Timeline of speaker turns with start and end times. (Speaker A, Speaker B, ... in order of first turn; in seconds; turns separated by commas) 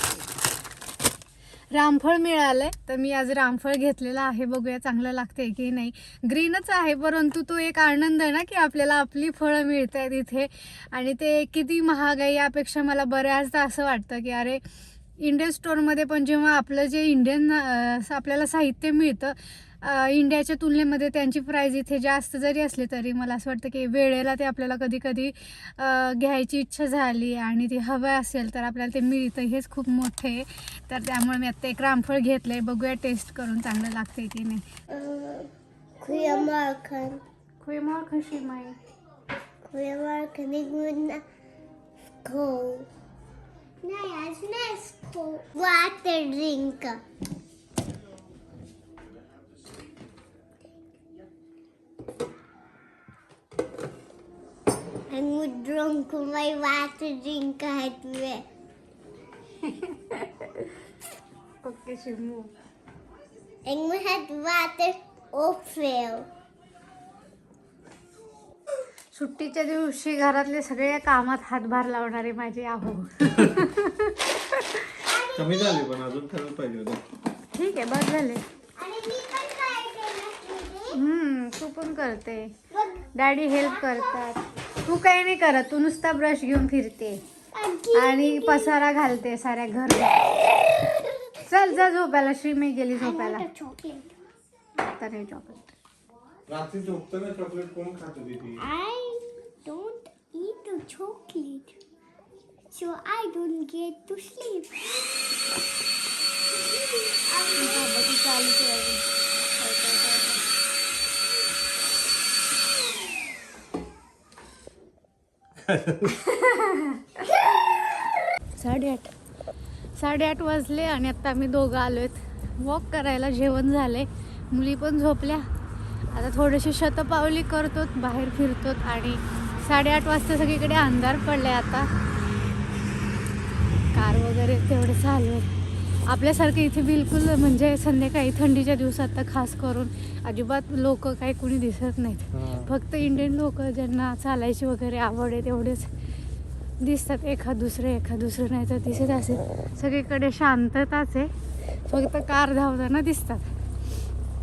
Speaker A: 1.7-14.6, Speaker A: 15.2-34.6, Speaker B: 34.9-37.2, Speaker A: 36.1-36.5, Speaker A: 37.6-38.8, Speaker B: 39.7-41.2, Speaker B: 42.2-42.9, Speaker B: 43.8-47.0, Speaker B: 55.1-58.4, Speaker A: 59.6-60.7, Speaker A: 61.6-62.5, Speaker B: 63.6-66.3, Speaker A: 69.1-75.0, Speaker B: 75.1-75.9, Speaker C: 75.3-77.0, Speaker A: 77.5-78.4, Speaker B: 78.8-81.0, Speaker A: 80.9-82.6, Speaker B: 82.7-84.3, Speaker A: 83.1-87.2, Speaker B: 87.5-88.8, Speaker A: 87.9-90.3, Speaker A: 91.4-93.5, Speaker B: 93.0-94.2, Speaker A: 94.8-95.7, Speaker C: 96.5-98.6, Speaker B: 98.6-101.8, Speaker B: 102.7-105.2, Speaker B: 107.3-107.9, Speaker A: 107.5-109.0, Speaker A: 109.6-110.4, Speaker C: 115.7-116.1, Speaker A: 116.1-117.8, Speaker A: 118.5-119.1, Speaker A: 120.0-125.5, Speaker A: 126.1-131.9, Speaker A: 133.9-145.9, Speaker C: 142.3-142.6, Speaker A: 146.8-153.5